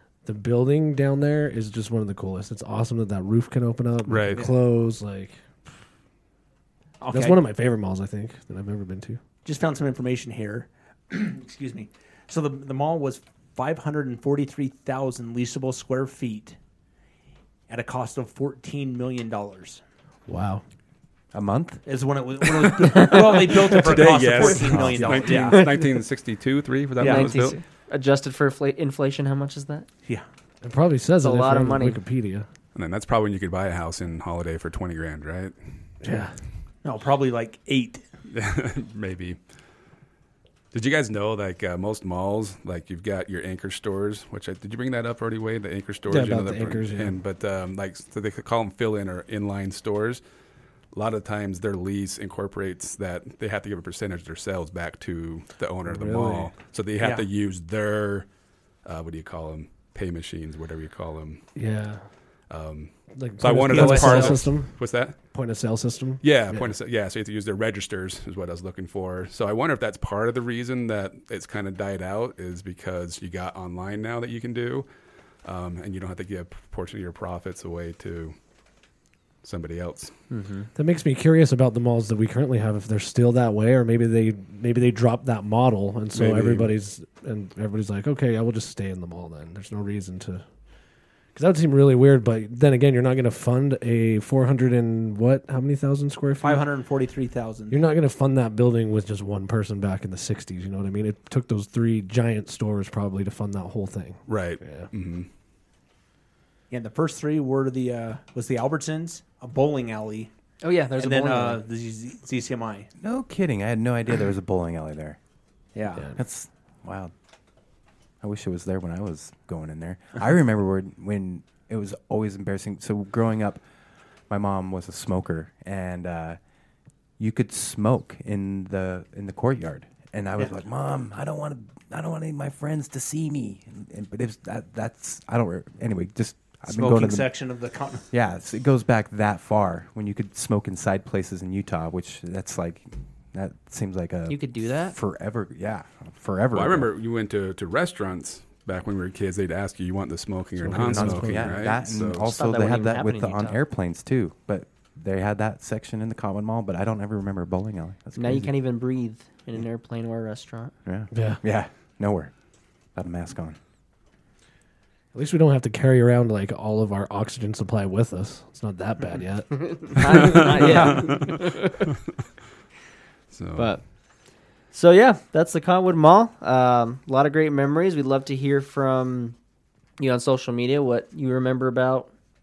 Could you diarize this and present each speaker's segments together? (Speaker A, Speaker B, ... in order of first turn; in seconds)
Speaker A: 0.2-5.4, 7.1-9.2, 20.3-20.6, 24.7-25.1, 30.6-32.5, 36.0-36.3, 46.1-47.1, 55.9-56.5, 61.5-62.0, 63.2-66.7, 80.7-90.4, 91.3-96.6, 97.7-104.9, 150.6-151.6, 161.1-161.4, 165.1-171.1
Speaker B: 4.0-4.5, 23.0-27.6, 32.7-35.5, 38.3-39.4, 40.7-50.2, 50.9-58.2, 58.8-61.4, 62.5-65.2, 66.2-74.9, 75.4-78.3, 79.4-80.1, 86.1-86.7, 104.3-105.3, 146.5-152.3, 170.1-171.4, 173.3-173.7
Speaker C: 7.0-7.4, 9.4-16.6, 17.7-19.8, 21.8-25.6, 27.0-27.3, 36.8-38.0, 57.0-57.2, 63.7-64.4, 96.4-97.8, 106.7-110.3, 111.0-112.9, 115.7-116.1, 136.7-138.1
Speaker D: 21.3-21.8, 113.0-115.2, 116.2-117.1, 118.2-123.6, 124.3-126.4, 127.2-137.3, 138.1-146.9, 150.7-158.5, 160.8-162.3, 162.9-163.6
Speaker E: 22.9-23.4, 25.3-25.8, 27.0-29.9, 31.2-32.0, 80.3-80.7, 110.6-111.6, 144.3-144.9, 152.2-153.6, 158.2-160.7, 169.5-171.9, 173.6-173.8, 174.7-179.3, 180.0-182.1